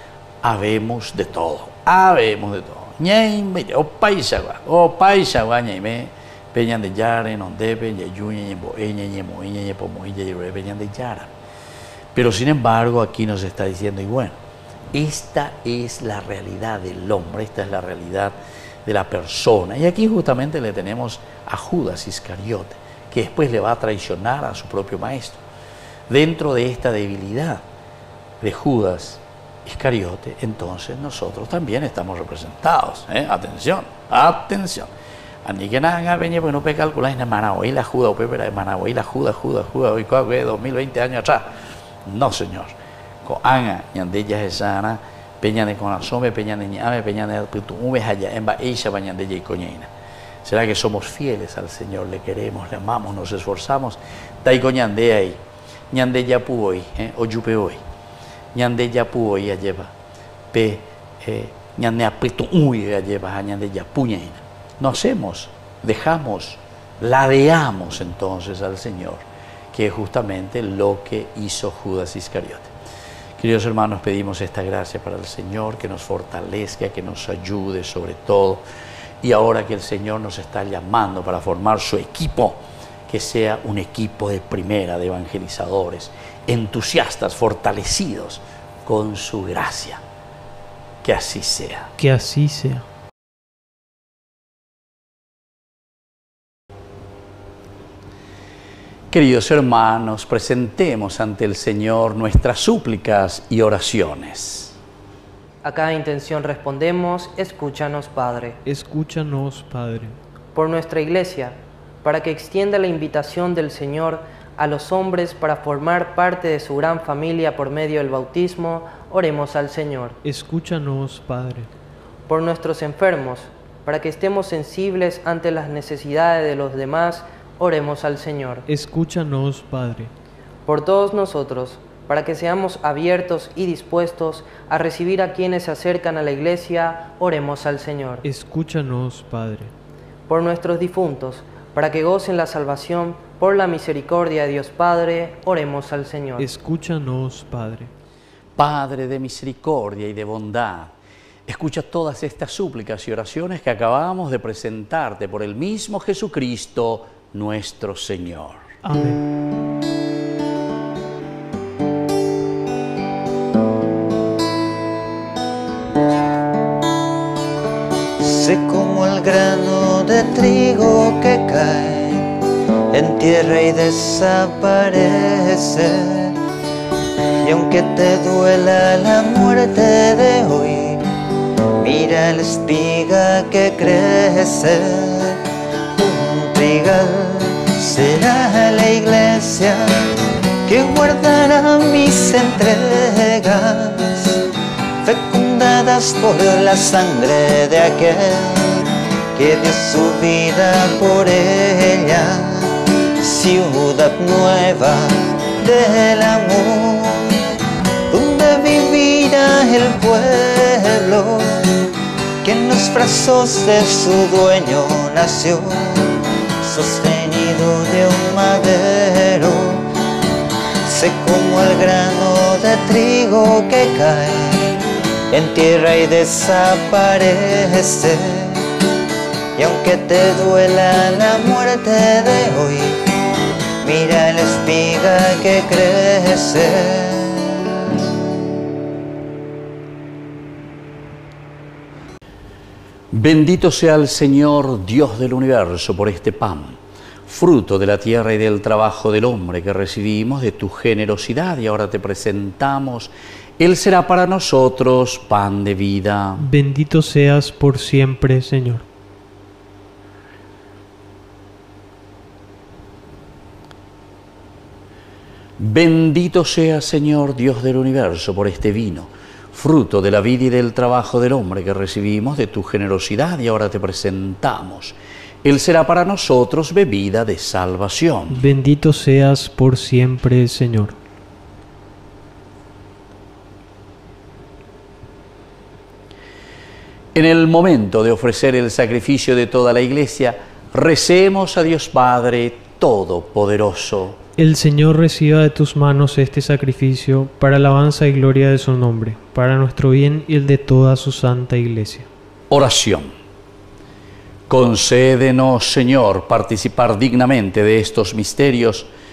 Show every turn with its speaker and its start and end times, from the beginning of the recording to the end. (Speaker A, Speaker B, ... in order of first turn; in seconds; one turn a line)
Speaker A: 0.4-11.3
Speaker A: 12.2-14.4
Speaker A: 14.9-25.4
Speaker A: 26.1-27.6
Speaker A: 28.4-34.9
Speaker A: 35.4-41.5
Speaker A: 42.0-49.9
Speaker A: 50.4-55.4
Speaker A: 55.9-57.8
Speaker A: 58.5-59.9
Speaker A: 60.5-72.7
Speaker A: 73.4-78.6
Speaker A: 79.2-90.0
Speaker A: 91.0-91.9
Speaker B: 92.0-92.8
Speaker A: 99.1-104.8
Speaker C: 105.6-108.6
Speaker B: 108.7-110.2
Speaker C: 110.5-120.2
Speaker B: 120.2-121.7
Speaker C: 122.3-128.7
Speaker B: 128.7-130.1
Speaker C: 130.7-138.2
Speaker B: 138.2-139.7
Speaker C: 140.3-146.5
Speaker B: 146.4-147.9
Speaker A: 148.6-150.9
Speaker A: 151.5-158.7
Speaker B: 158.8-159.2
Speaker D: 168.2-172.3
Speaker D: 172.9-176.4
Speaker D: 177.4-181.1
Speaker D: 181.8-185.4
Speaker D: 185.9-190.1
Speaker D: 190.7-194.4
Speaker D: 195.0-198.8
Speaker D: 199.4-207.5
Speaker D: 208.1-211.9
Speaker D: 212.4-219.8
Speaker D: 220.8-224.8
Speaker D: 225.3-228.7
Speaker D: 229.6-233.0
Speaker D: 233.8-237.6
Speaker A: 243.1-256.5
Speaker B: 256.4-258.8
Speaker A: 265.6-278.5
Speaker B: 278.3-280.9
Speaker A: 287.1-294.2
Speaker B: 294.4-302.1
Speaker A: 302.5-303.1
Speaker A: 304.5-308.9